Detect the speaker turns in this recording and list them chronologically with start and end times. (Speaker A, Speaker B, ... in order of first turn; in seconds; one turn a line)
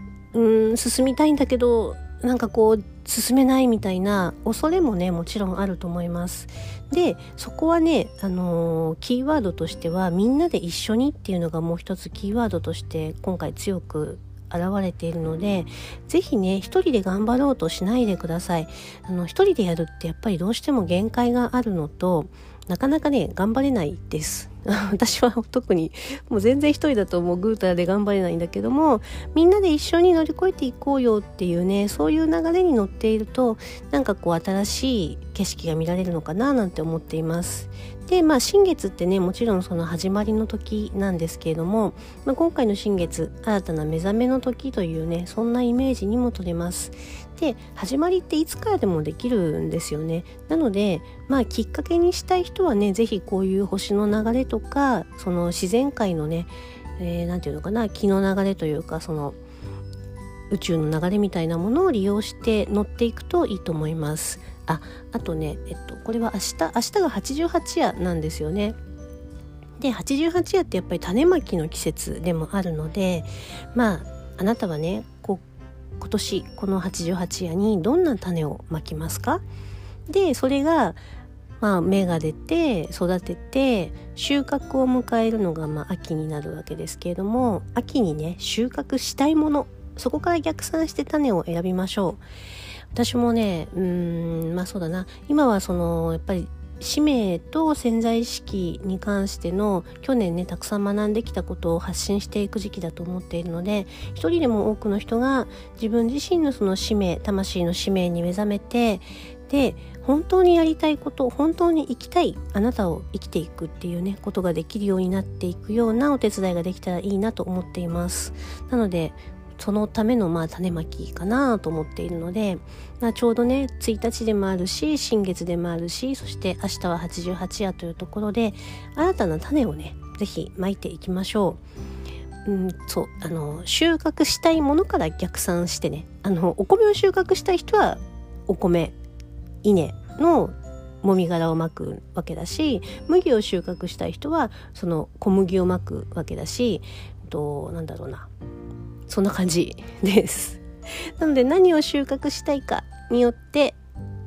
Speaker A: 0.3-59.4
Speaker A: 60.5-68.8
Speaker A: 69.8-75.4
Speaker A: 76.0-79.4
Speaker A: 80.1-81.0
Speaker A: 81.6-92.2
Speaker A: 92.9-131.6
Speaker A: 132.4-138.9
Speaker A: 139.6-148.3
Speaker A: 149.1-150.6
Speaker A: 151.2-153.8